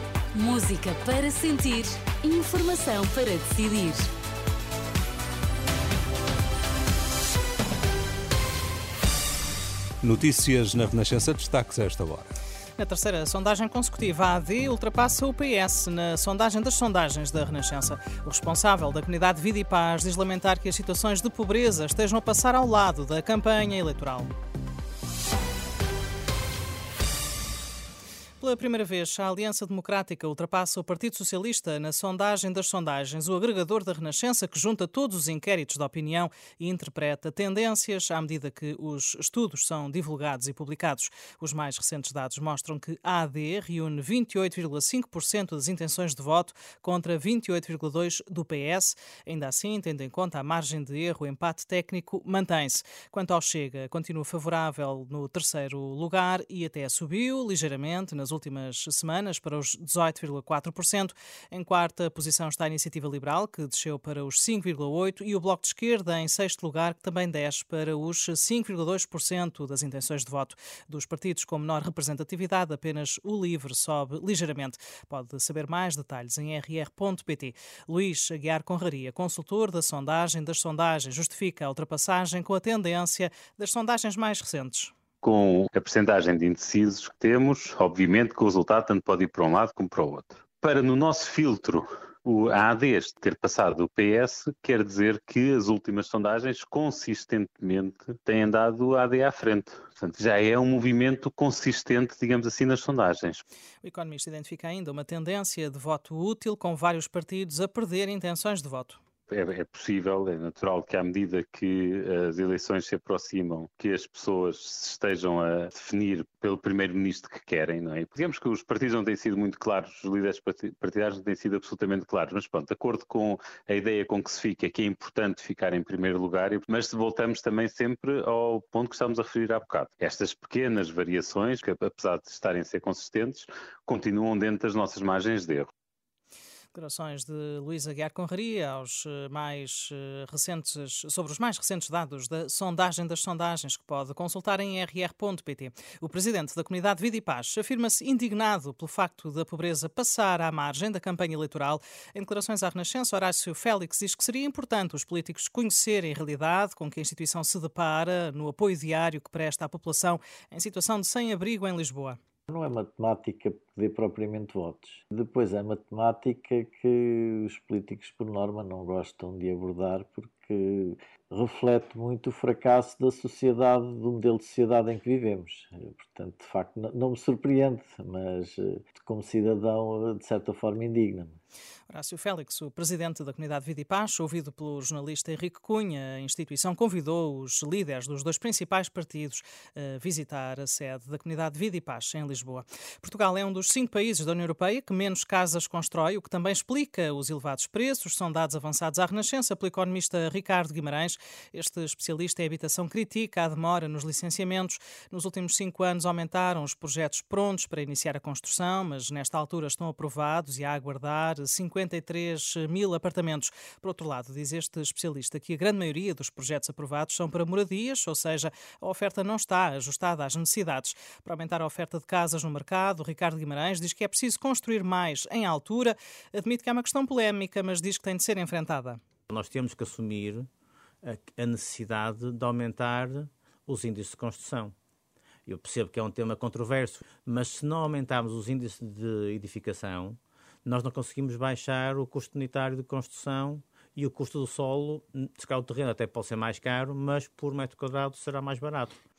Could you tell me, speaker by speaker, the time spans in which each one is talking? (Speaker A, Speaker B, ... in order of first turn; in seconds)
Speaker A: 0.3-4.1
Speaker B: 10.0-12.3
Speaker C: 12.8-24.3, 28.4-84.9, 103.8-109.0, 136.7-162.2, 181.9-229.0
Speaker D: 85.2-103.4, 109.3-135.7
Speaker E: 162.5-181.4
Speaker F: 229.3-230.4, 231.1-234.7, 235.5-240.1, 240.7-248.9